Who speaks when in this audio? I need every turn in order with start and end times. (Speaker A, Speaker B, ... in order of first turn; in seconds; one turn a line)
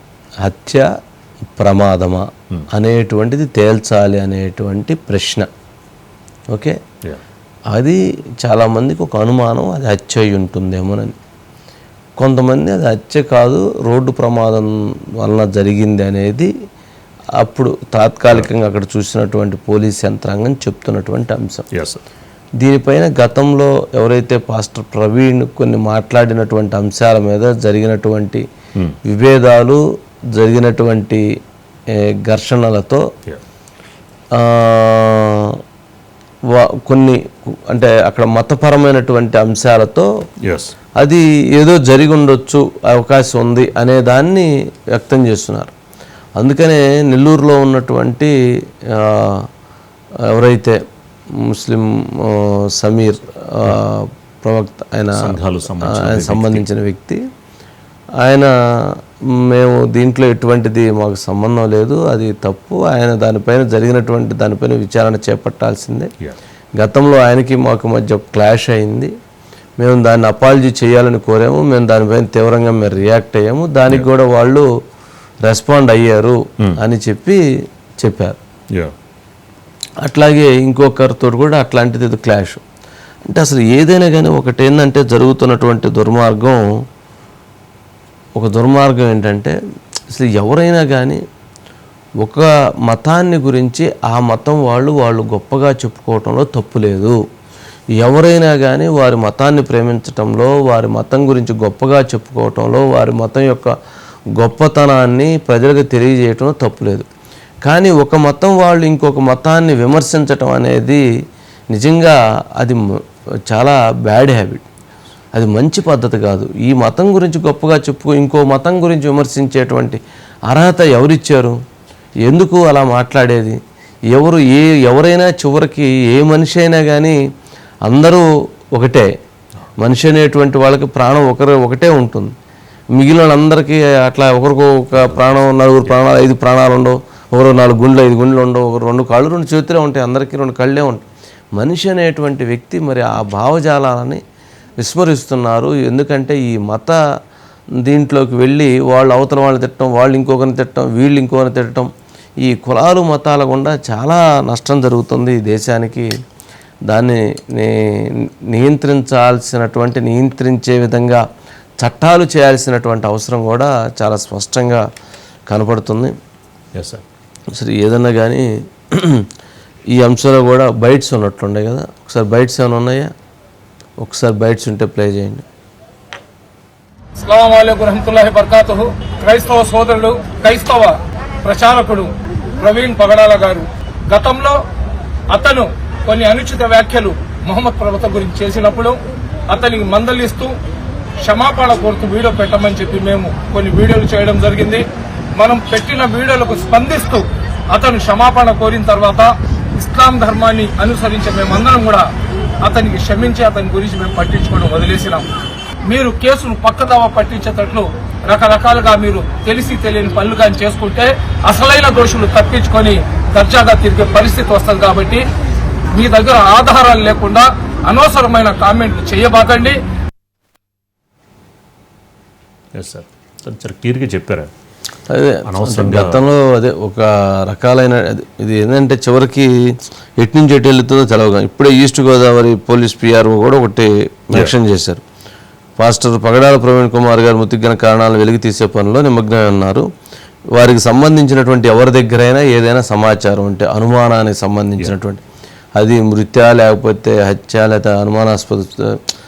Speaker A: 0.4-0.8
Speaker A: 1.6-5.5
Speaker A: 7.7-11.1
Speaker A: 12.2-16.5
Speaker A: 17.4-21.6
Speaker B: 21.7-22.0
Speaker A: 22.6-28.4
Speaker A: 29.1-29.8
Speaker A: 30.4-31.2
Speaker A: 32.2-33.0
Speaker A: 34.4-35.5
Speaker A: 36.5-37.2
Speaker A: 37.7-40.1
Speaker B: 40.4-40.7
Speaker A: 41.0-45.7
Speaker A: 46.4-48.3
Speaker A: 49.0-49.4
Speaker A: 50.3-50.8
Speaker A: 51.5-57.2
Speaker B: 55.1-56.6
Speaker A: 58.2-58.9
Speaker A: 59.4-66.1
Speaker A: 66.8-69.1
Speaker A: 69.8-74.7
Speaker A: 75.5-77.4
Speaker A: 78.0-78.4
Speaker A: 80.0-82.6
Speaker A: 83.3-86.6
Speaker A: 88.4-89.5
Speaker A: 90.1-91.2
Speaker A: 92.2-97.2
Speaker A: 98.0-103.7
Speaker A: 104.4-107.0
Speaker A: 107.6-111.0
Speaker A: 111.7-112.8
Speaker A: 113.5-114.6
Speaker A: 115.3-120.0
Speaker A: 120.5-121.5
Speaker A: 122.3-123.6
Speaker A: 124.1-127.2
Speaker A: 127.9-128.2
Speaker A: 128.8-129.1
Speaker A: 129.8-132.3
Speaker A: 133.0-141.0
Speaker A: 141.6-144.2
Speaker A: 144.8-147.0
Speaker A: 147.8-151.9
Speaker A: 152.4-156.1
Speaker A: 156.9-157.8
Speaker A: 158.5-161.2
Speaker A: 161.8-164.8
Speaker A: 165.5-166.1
Speaker B: 166.8-167.0
Speaker A: 167.6-169.2
Speaker A: 169.9-173.1
Speaker A: 174.0-175.4
Speaker C: 177.2-184.6
Speaker C: 185.3-189.0
Speaker C: 189.5-190.5
Speaker C: 191.2-194.8
Speaker C: 195.4-202.1
Speaker C: 202.6-205.2
Speaker C: 205.9-215.2
Speaker C: 215.9-219.8
Speaker B: 222.7-224.5
Speaker A: 225.1-229.5
Speaker B: 225.4-226.2
Speaker A: 230.2-235.0
Speaker A: 235.8-239.8
Speaker A: 240.6-245.2
Speaker A: 245.8-249.0